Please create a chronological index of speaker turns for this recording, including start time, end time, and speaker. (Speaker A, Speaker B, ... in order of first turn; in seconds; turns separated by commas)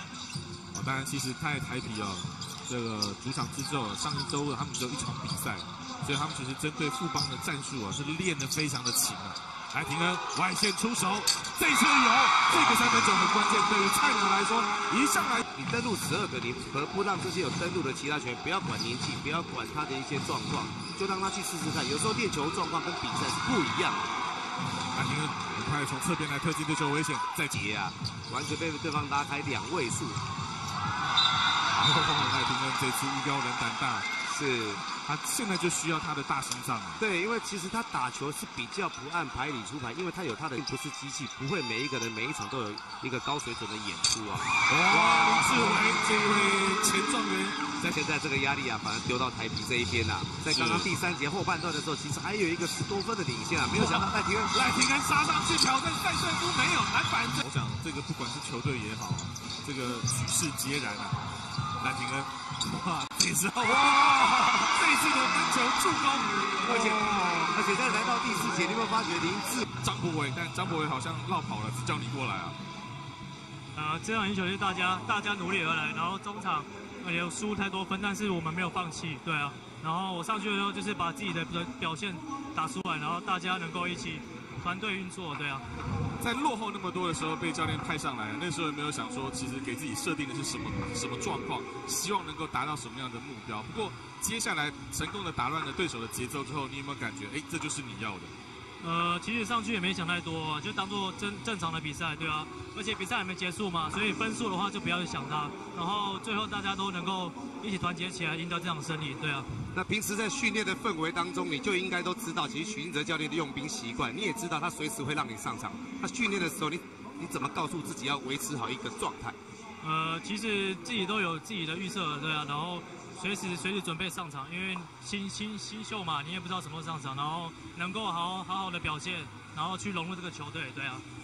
Speaker A: 0.7-15.4, Speaker B: 12.5-13.0, Speaker B: 15.5-24.1, Speaker A: 24.9-27.6, Speaker B: 27.4-30.2, Speaker A: 31.8-34.1, Speaker B: 34.3-34.8, Speaker A: 34.9-37.0, Speaker B: 37.0-45.8, Speaker A: 44.7-47.9, Speaker B: 47.9-54.6, Speaker A: 50.5-50.9, Speaker A: 53.8-61.2, Speaker A: 61.8-67.5, Speaker B: 66.6-69.7, Speaker A: 69.8-72.6, Speaker C: 73.8-85.7, Speaker A: 86.2-98.3, Speaker C: 98.8-109.5, Speaker B: 109.7-119.4, Speaker C: 119.8-131.0